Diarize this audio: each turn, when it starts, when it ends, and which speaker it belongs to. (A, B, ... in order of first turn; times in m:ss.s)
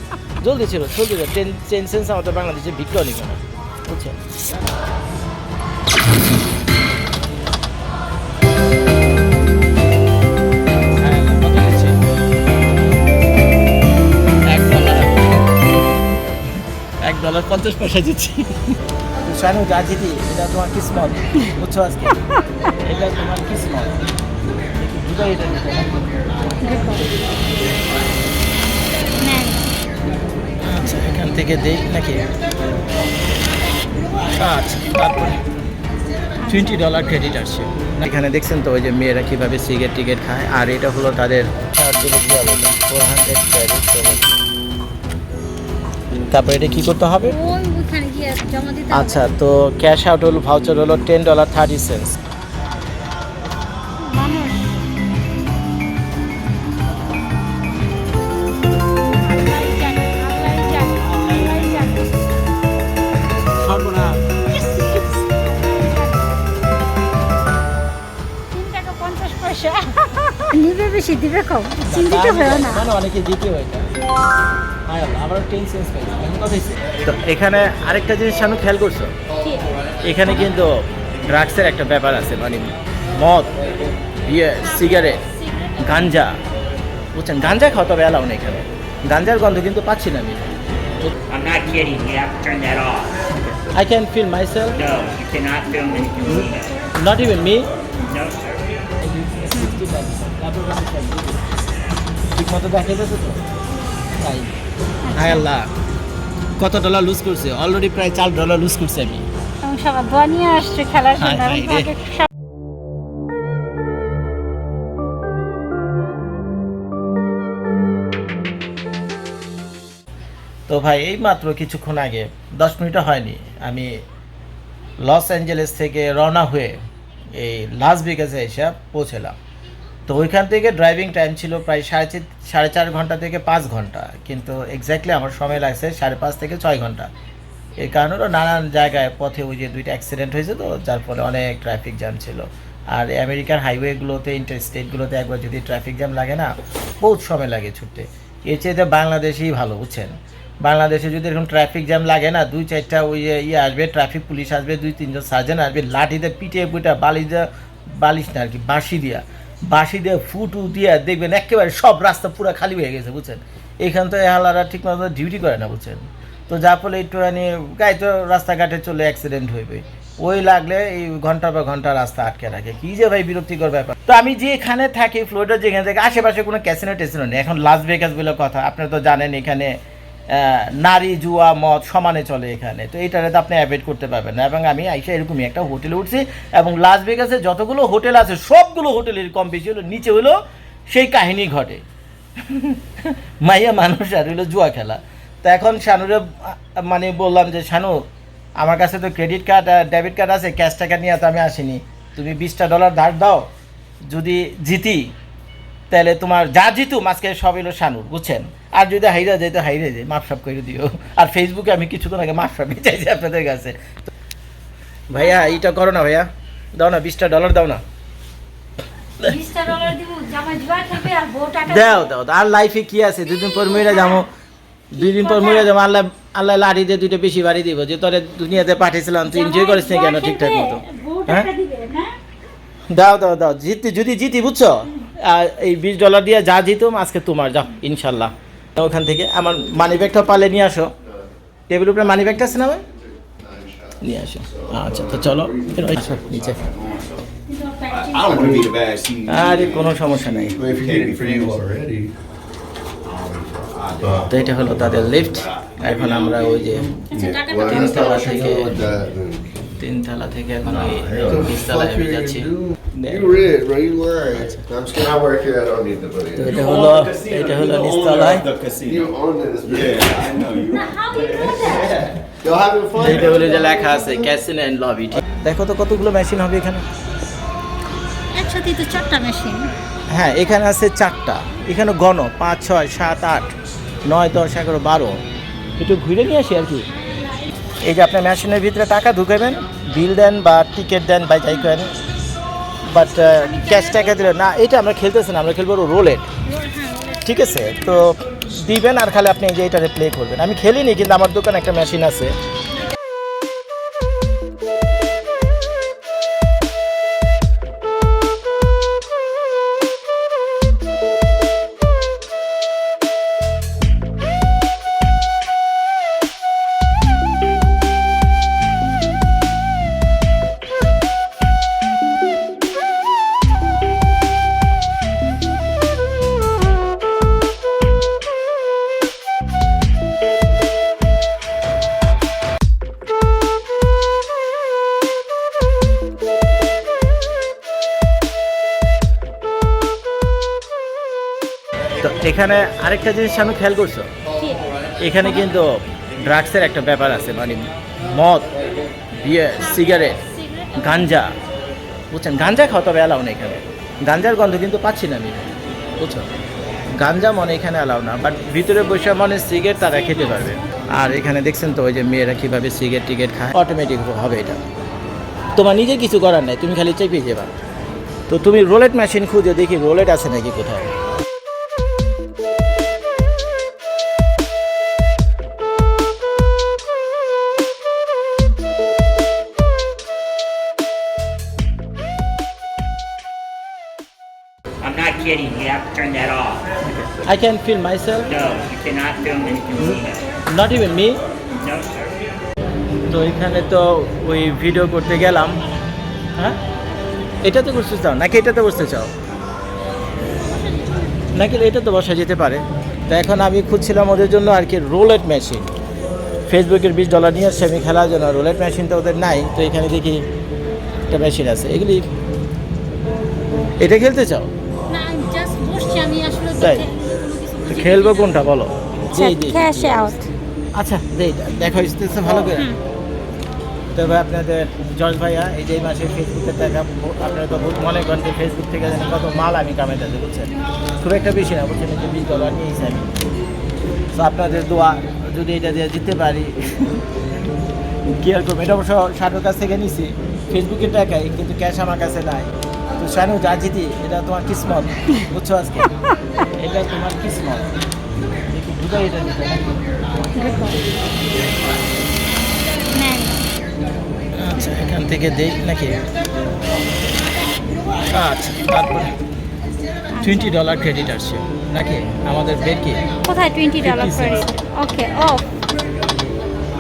0:00.4-0:04.2 A
0:11.0-0:12.0 A
0:14.5-0:15.6 A
0:17.0-0:22.2 A
0:22.8-0:24.0 A
0:24.8-0:26.1 A
0:26.6-0:27.1 B
0:29.2-0:29.7 B
0:30.6-0:32.3 A
0:34.4-0:35.5 A
0:36.5-0:36.8 B
0:36.5-0:44.3 A
0:46.3-0:47.4 A
0:47.3-0:49.3 B
0:48.9-0:52.2 A
0:54.0-0:54.8 B
0:59.1-1:02.1 B
1:01.0-1:01.9 A
1:03.6-1:04.4 A
1:04.5-1:06.3 B
1:08.5-1:12.9 B
1:11.8-1:13.9 A
1:14.9-1:19.1 A
1:19.4-1:19.7 B
1:20.0-1:23.5 A
1:20.3-1:20.5 B
1:24.2-1:25.2 A
1:24.7-1:26.2 B
1:25.8-1:26.4 A
1:27.1-1:31.2 A
1:31.3-1:33.1 C
1:31.7-1:32.0 B
1:33.3-1:35.0 A
1:35.0-1:36.6 B
1:35.2-1:36.1 C
1:36.3-1:37.7 A
1:39.0-1:41.4 A
1:39.5-1:39.8 B
1:42.4-1:43.4 A
1:44.2-1:44.5 A
1:45.0-1:45.5 B
1:45.2-1:45.7 A
1:46.6-1:49.3 A
1:49.6-1:52.3 B
1:51.2-1:51.9 A
2:00.7-2:03.9 A
2:05.0-2:06.8 A
2:07.3-2:09.4 A
2:10.1-2:17.1 A
2:17.8-2:59.7 A
3:00.3-3:11.8 A
3:12.4-3:18.1 A
3:18.6-3:23.5 A
3:24.1-3:25.1 A
3:25.9-3:34.1 A
3:35.1-3:37.8 A
3:35.2-3:35.6 B
3:39.2-3:42.1 B
3:41.7-3:44.3 A
3:43.7-3:44.2 B
3:44.9-3:51.5 A
3:45.0-3:45.7 B
3:49.3-3:52.2 B
3:52.9-4:00.9 A
4:01.7-4:02.8 A
4:03.2-4:04.0 D
4:04.0-4:06.6 A
4:04.6-4:05.9 D
4:06.4-4:07.2 E
4:06.6-4:07.0 D
4:07.5-4:08.6 B
4:07.9-4:11.9 E
4:08.3-4:08.7 D
4:09.3-4:10.6 A
4:10.6-4:12.1 D
4:13.1-4:16.9 E
4:14.0-4:14.3 D
4:14.2-4:17.0 A
4:17.1-4:18.7 B
4:17.1-4:19.6 D
4:17.6-4:18.8 A
4:19.8-4:23.4 A
4:20.8-4:21.1 E
4:21.2-4:26.6 D
4:24.3-4:24.6 A
4:26.3-4:28.5 A
4:26.5-4:32.2 E
4:28.8-4:30.4 D
4:30.5-4:32.0 B
4:32.3-4:33.8 D
4:33.0-4:36.8 A
4:38.3-4:39.7 B
4:40.1-4:43.5 A
4:44.1-4:45.2 A
4:45.8-4:46.9 A
4:46.9-4:47.6 B
4:47.8-4:52.0 A
4:52.9-4:56.3 A
4:53.0-4:54.4 B
4:56.4-4:57.8 B
4:57.2-5:02.4 A
5:42.0-5:44.1 A
5:44.4-5:44.6 B
5:45.0-5:48.5 A
5:45.2-5:45.5 B
5:49.1-5:50.2 A
5:49.5-5:51.2 B
5:50.8-5:51.3 A
5:52.1-5:56.3 A
5:56.9-6:04.6 A
5:59.8-6:00.9 B
6:05.6-6:07.5 A
6:08.3-6:10.9 A
6:24.8-6:26.6 C
6:26.8-6:28.4 A
6:28.4-6:29.6 C
6:29.0-6:30.2 B
6:29.7-6:31.2 A
6:33.1-6:35.6 A
6:37.4-6:39.1 A
6:40.4-6:41.3 B
6:41.3-6:45.7 A
6:46.5-6:50.3 A
6:51.1-6:52.1 A
6:53.8-6:54.5 A
6:54.9-6:58.5 B
6:56.6-6:56.9 A
6:57.7-7:00.1 A
6:59.0-7:00.3 B
7:00.8-7:02.7 A
7:02.5-7:02.8 B
7:03.9-7:13.1 A
7:14.1-7:17.0 A
7:18.0-7:25.9 A
7:26.6-7:27.7 A
7:28.5-7:29.8 A
7:30.4-7:30.8 B
7:33.0-7:33.5 B
7:34.4-7:36.0 A
7:38.1-7:39.2 A
7:40.2-7:40.6 B
7:40.2-7:43.0 A
7:43.2-7:45.4 B
7:43.8-7:44.6 A